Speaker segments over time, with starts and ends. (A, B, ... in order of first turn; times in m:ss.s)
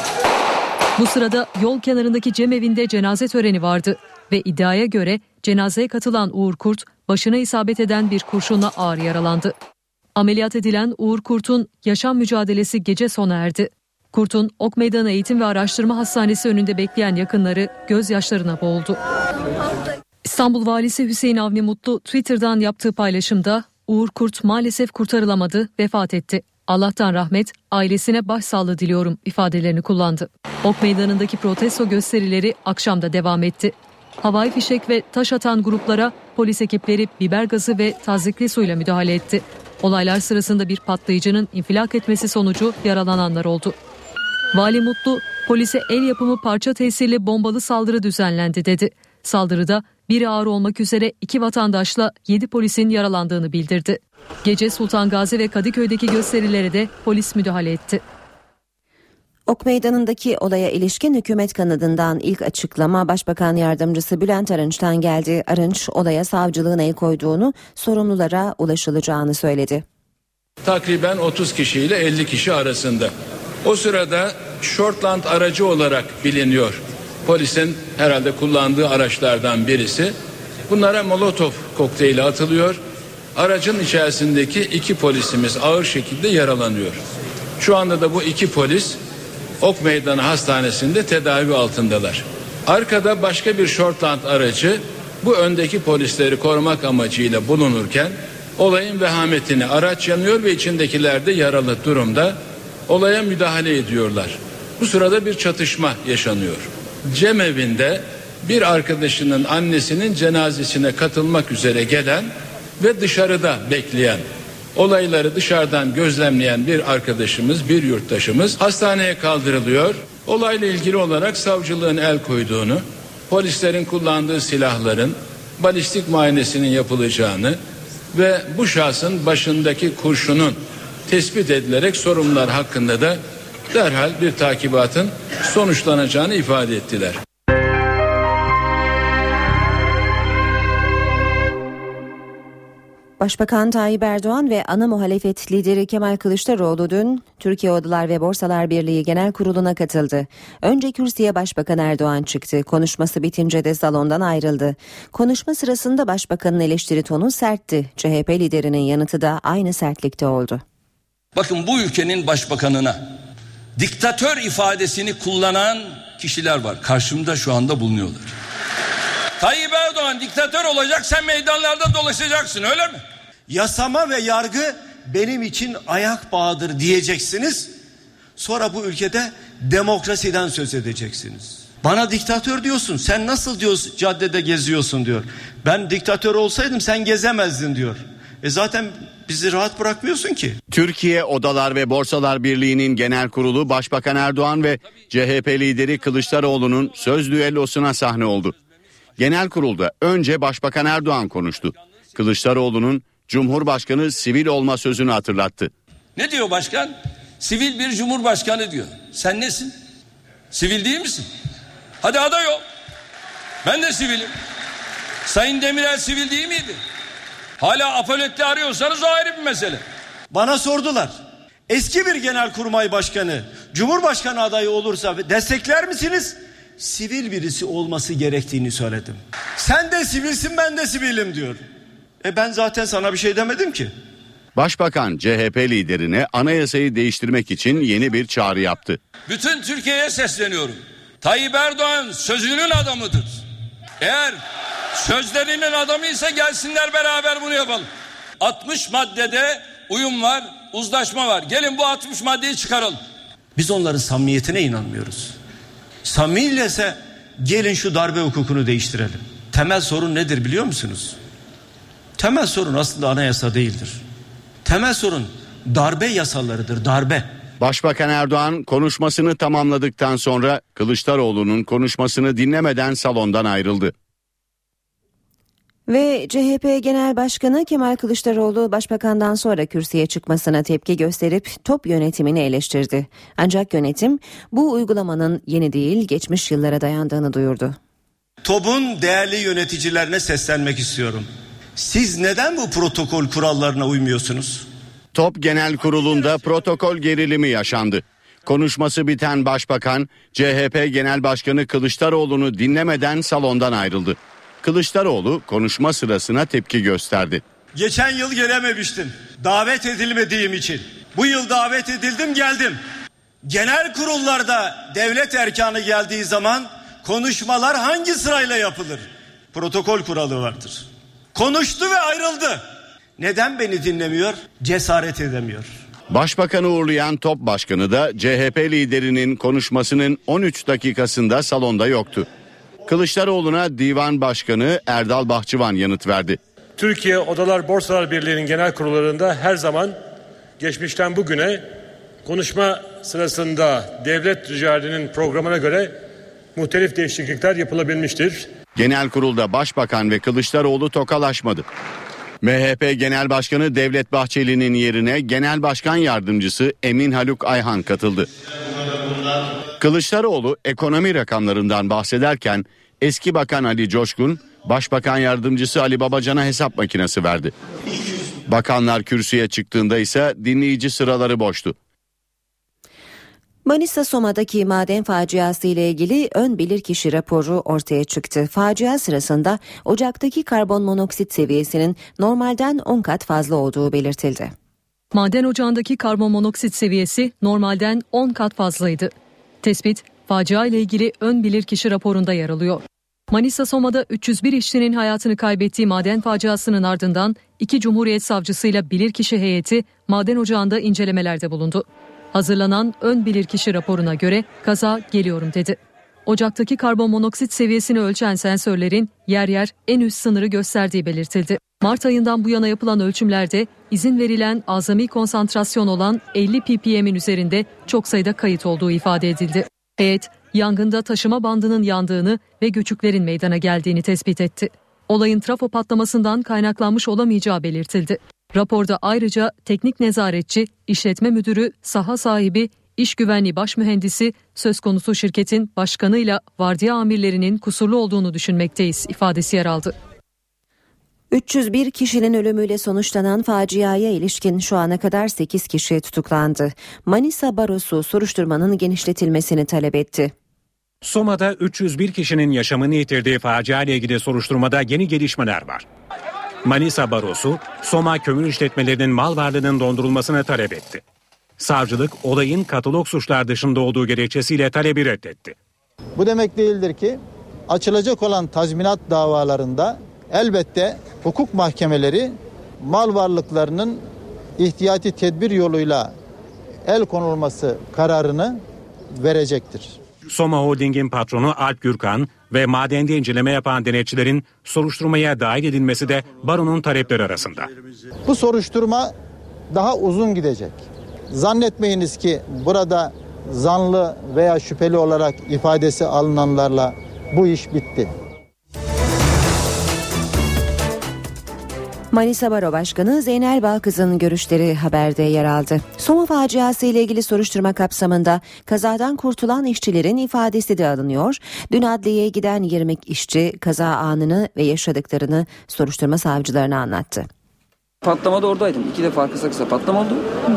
0:01.0-0:09.6 A
0:10.2-0:19.0 A
0:20.2-0:43.8 A
0:44.5-0:58.0 A
0:59.5-1:09.8 B
1:10.6-1:13.1 C
1:13.6-1:20.2 C
1:20.7-1:22.8 C
1:23.4-1:27.0 C
1:27.6-1:29.0 C
1:29.6-2:07.6 C
2:08.1-2:13.2 C
2:13.7-2:17.2 C
2:23.2-2:40.6 B
2:41.4-2:43.0 D
2:43.8-2:48.3 D
2:49.4-2:53.0 D
2:53.5-2:57.7 E
2:58.4-3:10.6 E
3:10.7-3:18.6 F
3:19.2-3:25.7 F
3:26.2-3:29.8 D
3:30.5-3:31.3 D
3:32.0-3:32.6 D
3:33.6-3:34.3 D
3:35.3-3:36.8 D
3:37.6-3:39.8 D
3:40.3-3:51.6 E
3:52.2-3:53.9 E
3:54.6-3:59.0 F
3:59.3-4:03.4 D
4:04.0-4:04.4 D
4:04.9-4:07.9 D
4:08.4-4:13.0 D
4:13.6-4:15.4 E
4:16.0-4:21.2 E
4:22.2-4:24.0 E
4:24.6-4:27.3 E
4:27.6-4:33.9 F
4:35.9-4:47.8 B
4:48.4-4:54.7 E
4:55.1-5:07.4 F
5:07.8-5:12.8 E
5:13.4-5:22.6 E
5:23.2-5:25.8 E
5:26.1-5:32.3 F
5:32.9-5:36.4 F
5:36.8-5:39.9 G
5:40.6-5:41.6 G
5:42.3-5:45.9 G
5:46.6-5:48.4 G
5:48.8-5:51.6 F
5:52.4-5:58.3 F
5:59.8-6:07.5 F
6:08.5-6:11.8 F
6:13.6-6:24.5 B
6:25.1-7:19.9 A
7:21.3-7:30.3 B
7:31.0-7:35.8 H
7:36.6-7:41.0 H
7:41.6-7:45.6 H
7:46.2-7:54.0 I
7:54.6-7:56.1 I
7:56.9-7:58.6 I
7:59.2-8:00.0 I
8:00.3-8:07.7 H
8:08.3-8:09.1 I
8:09.7-8:18.1 I
8:22.1-8:37.3 B
8:38.0-8:40.3 J